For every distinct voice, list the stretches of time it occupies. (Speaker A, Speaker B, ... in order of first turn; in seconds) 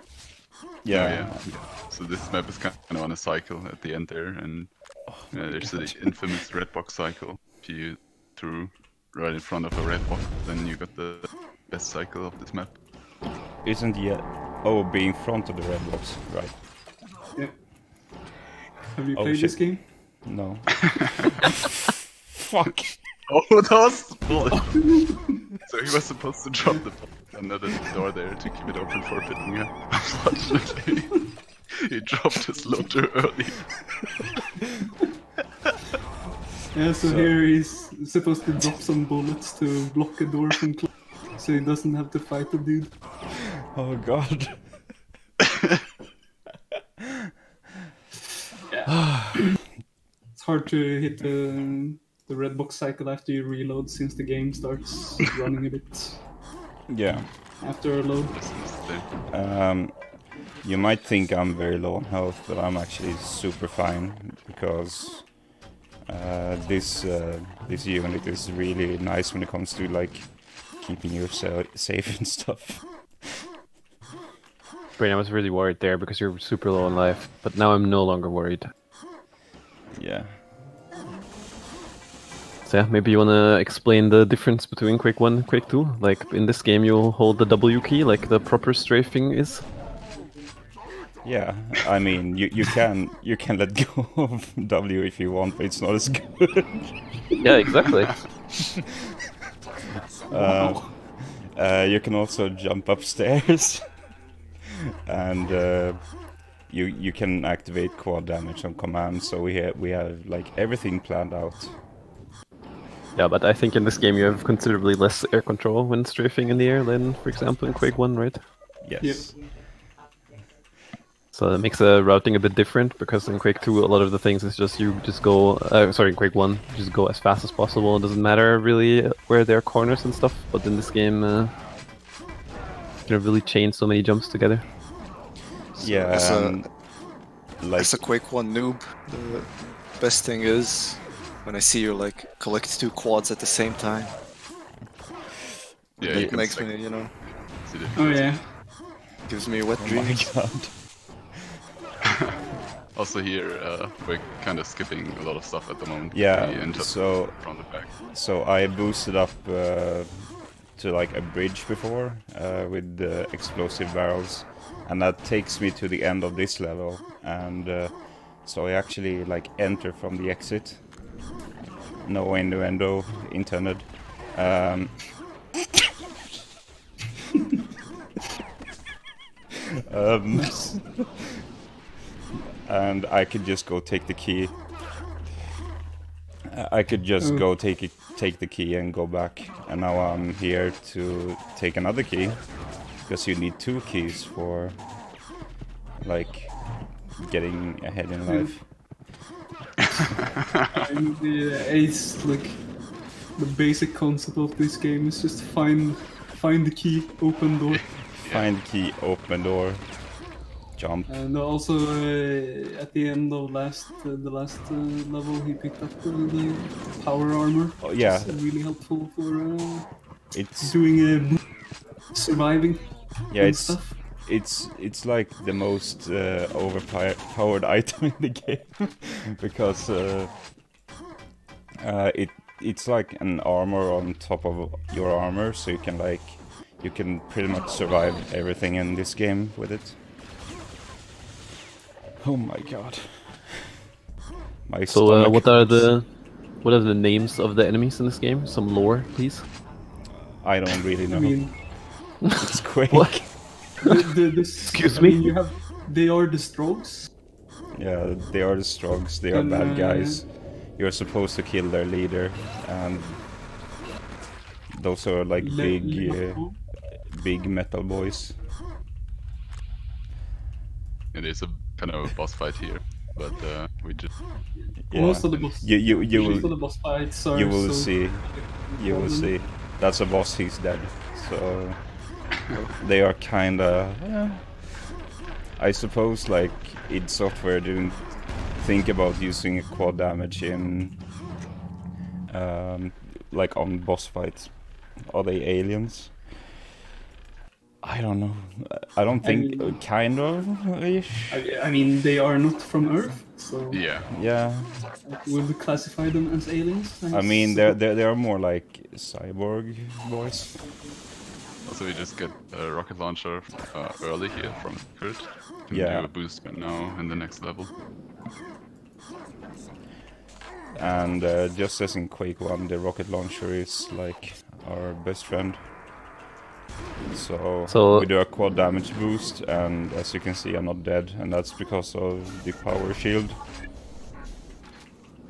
Speaker A: 0.8-1.6, 5.2-6.0, 13.6-16.6, 19.1-21.2, 22.3-23.0, 37.0-37.3, 43.6-44.9, 49.0-49.5, 56.9-57.3, 59.3-65.5, 66.1-73.3, 79.9-80.4, 91.2-96.9, 100.3-104.2, 105.1-111.8, 118.8-119.5, 135.8-136.9, 137.6-138.0, 146.1-146.5, 149.8-151.3, 156.1-171.1, 172.0-175.4, 179.9-181.1, 182.7-184.7, 186.5-195.1, 196.0-198.7, 208.2-211.1, 217.8-218.4, 220.3-220.9, 223.3-230.4, 231.8-240.0, 242.2-243.6, 244.7-246.0, 250.4-253.7, 257.7-263.3, 264.7-268.4, 274.9-285.0, 285.6-291.1, 292.3-296.3, 297.8-301.4, 304.1-304.8, 307.1-310.6, 315.7-316.1, 320.8-325.7, 327.1-333.4
Speaker B: 0.9-12.8, 23.3-34.0, 58.3-59.1, 146.0-148.5, 152.9-157.9, 207.7-208.5, 271.1-274.5, 303.7-304.1, 311.6-317.7
Speaker C: 17.4-17.6, 18.9-19.9, 24.5-25.4, 36.7-43.0, 48.7-49.7, 50.4-56.3, 57.6-58.4, 100.3-100.9, 119.0-119.4, 147.9-148.6, 180.4-180.9, 198.3-198.6, 200.6-208.1, 211.1-224.0, 251.1-251.6, 253.8-257.1, 259.3-260.2, 265.4-266.6, 274.6-279.3, 299.2-299.8, 301.3-304.0, 305.0-307.8
Speaker D: 75.0-78.7, 82.7-89.6, 97.4-98.2, 113.2-118.5, 121.3-131.5, 133.1-134.7, 244.9-249.5, 252.9-253.3, 254.6-255.4, 327.7-328.1
Speaker E: 135.8-136.7, 137.8-144.2, 146.0-147.2, 149.2-150.3